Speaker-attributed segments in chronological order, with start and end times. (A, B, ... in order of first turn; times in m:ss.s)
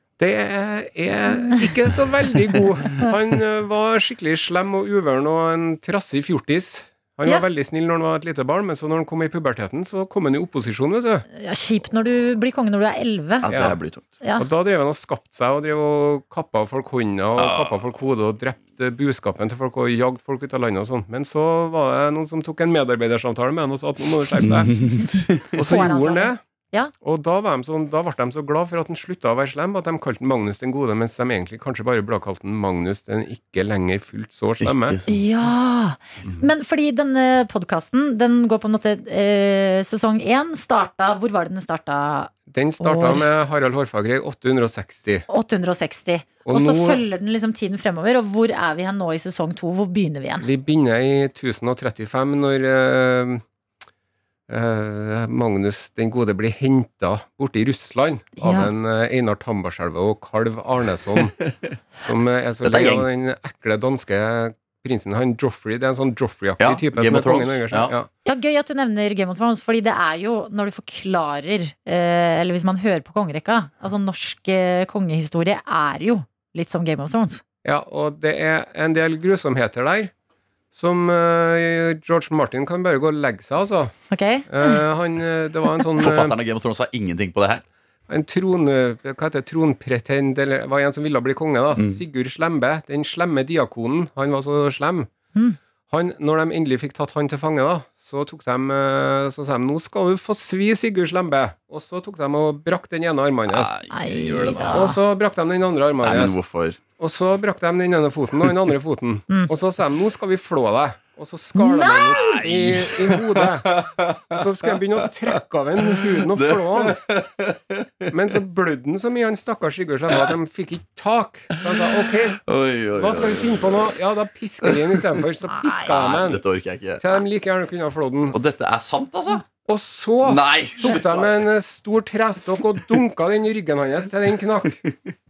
0:00.2-0:11.3 A
0:01.3-0:01.6 B
0:11.3-0:13.5 B
0:13.4-0:14.1 C
0:13.5-0:13.8 A
0:14.2-0:14.5 B
0:14.4-0:24.8 A
0:17.4-0:17.8 C
0:24.4-0:25.5 C
0:25.5-0:26.4 A
0:25.6-0:26.9 B
0:27.0-0:35.0 A
0:34.6-0:35.2 C
0:35.1-0:43.3 B
0:42.5-0:45.3 A
0:45.3-0:50.5 B
0:46.5-0:47.0 A
0:50.4-0:53.4 A
0:54.5-1:01.4 A
0:58.4-0:58.7 B
1:02.0-1:08.1 A
1:02.6-1:03.1 C
1:06.6-1:07.9 C
1:08.2-1:17.4 B
1:17.6-1:20.1 A
1:20.7-1:24.0 A
1:24.1-1:24.8 B
1:24.5-1:26.4 A
1:26.0-1:27.6 C
1:28.1-1:35.1 A
1:31.8-1:32.0 C
1:35.9-1:43.8 A
1:43.5-1:45.0 C
1:43.9-1:45.0 B
1:44.7-1:46.4 A
1:46.0-1:46.8 C
1:47.0-1:57.0 A
1:51.6-1:52.2 B
1:52.2-1:54.2 C
1:55.3-1:58.2 C
1:58.1-2:02.4 A
2:01.6-2:03.9 C
2:02.9-2:06.4 A
2:04.6-2:07.2 C
2:07.0-2:08.4 A
2:08.3-2:09.5 C
2:09.6-2:14.8 A
2:10.2-2:11.5 C